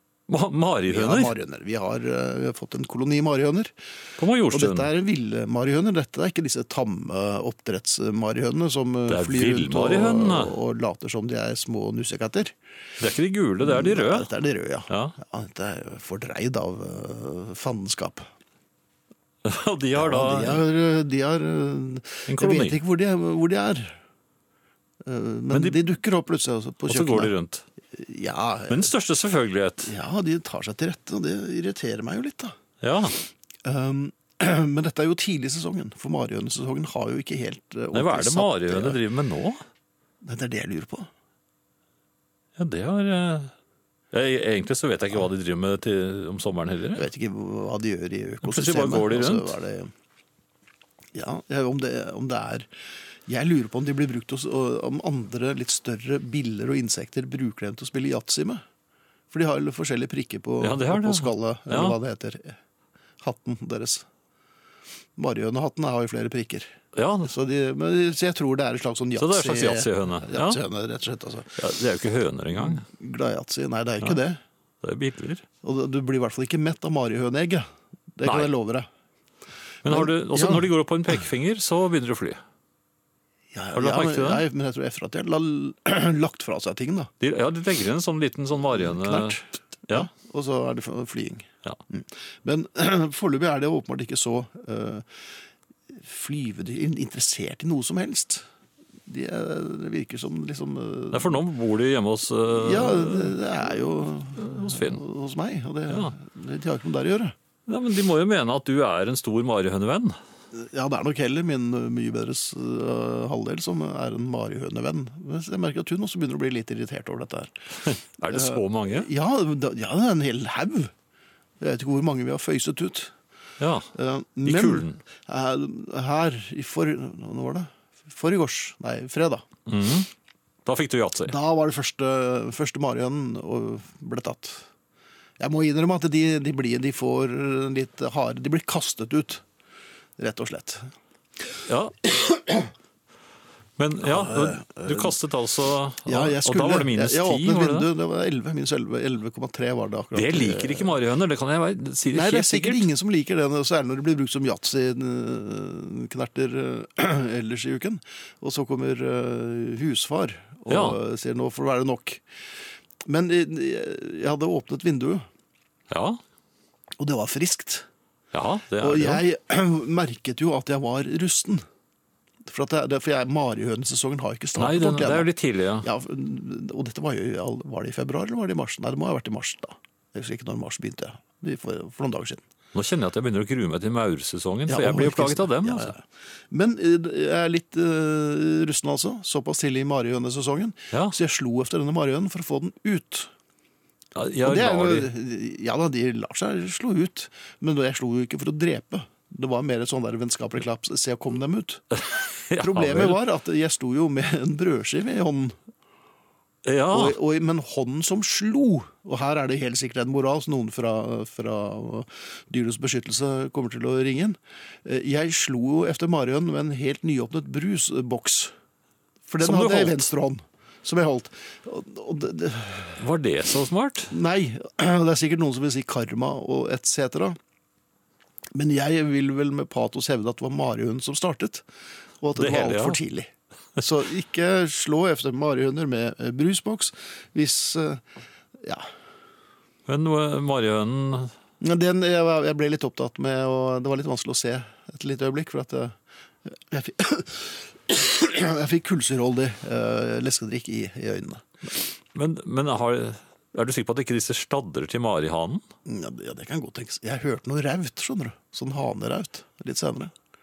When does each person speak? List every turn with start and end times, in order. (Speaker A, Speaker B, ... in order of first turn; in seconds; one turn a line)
Speaker A: 0.3-1.3
Speaker B: 0.9-3.7
Speaker A: 4.2-4.9
Speaker B: 4.5-12.6
Speaker A: 9.1-10.6
Speaker A: 13.0-14.3
Speaker B: 13.6-18.3
Speaker A: 14.9-15.2
Speaker A: 19.4-20.6
Speaker B: 20.0-24.0
Speaker A: 22.3-22.8
Speaker B: 25.0-27.3
Speaker A: 25.5-25.8
Speaker A: 26.9-27.6
Speaker B: 27.9-28.9
Speaker A: 28.7-29.9
Speaker B: 29.8-32.5
Speaker A: 32.8-33.2
Speaker B: 33.6-39.0
Speaker A: 37.9-39.6
Speaker B: 40.2-41.1
Speaker A: 42.6-43.5
Speaker A: 44.1-47.0
Speaker B: 46.9-49.9
Speaker A: 48.4-49.5
Speaker B: 51.1-52.7
Speaker B: 53.3-58.6
Speaker B: 59.3-62.6
Speaker A: 60.6-62.0
Speaker B: 63.2-64.1
Speaker B: 65.2-71.6
Speaker A: 66.9-67.3
Speaker A: 69.2-70.6
Speaker A: 71.6-72.8
Speaker B: 72.6-74.4
Speaker A: 74.8-75.4
Speaker B: 75.6-78.9
Speaker A: 78.2-78.5
Speaker B: 79.8-80.7
Speaker A: 79.8-82.4
Speaker B: 83.5-87.1
Speaker A: 83.7-84.4
Speaker A: 87.2-90.1
Speaker B: 88.7-95.2
Speaker B: 95.9-98.5
Speaker B: 99.0-101.4
Speaker A: 101.1-103.4
Speaker B: 102.5-107.3
Speaker A: 104.4-105.0
Speaker A: 105.9-106.1
Speaker A: 107.7-110.2
Speaker B: 110.5-117.5
Speaker A: 117.8-119.1
Speaker B: 118.2-120.9
Speaker B: 121.6-123.1
Speaker A: 123.6-123.9
Speaker B: 123.9-129.4
Speaker A: 124.4-125.0
Speaker A: 129.7-130.1
Speaker A: 130.7-131.3
Speaker B: 131.2-134.6
Speaker B: 135.4-139.4
Speaker B: 140.2-140.9
Speaker A: 141.7-141.9
Speaker B: 142.1-142.7
Speaker A: 143.8-147.9
Speaker B: 144.0-145.1
Speaker B: 146.1-150.9
Speaker A: 150.1-152.8
Speaker B: 152.1-162.2
Speaker A: 160.7-161.0
Speaker B: 163.0-165.3
Speaker A: 165.9-166.2
Speaker B: 167.0-167.9
Speaker A: 168.3-169.2
Speaker B: 168.8-171.6
Speaker B: 172.4-182.4
Speaker A: 174.6-175.9
Speaker A: 182.7-185.9
Speaker B: 184.7-193.3
Speaker A: 194.1-195.1
Speaker B: 194.4-201.8
Speaker A: 202.0-203.2
Speaker B: 202.6-205.6
Speaker A: 206.6-207.2
Speaker B: 206.9-218.5
Speaker B: 219.3-223.0
Speaker A: 219.4-220.1
Speaker A: 223.0-224.1
Speaker B: 224.1-227.4
Speaker B: 228.5-231.7
Speaker B: 232.2-238.0
Speaker A: 232.3-233.0
Speaker B: 238.6-238.9
Speaker A: 239.9-241.3
Speaker B: 241.6-251.4
Speaker A: 252.1-255.6
Speaker B: 255.8-260.1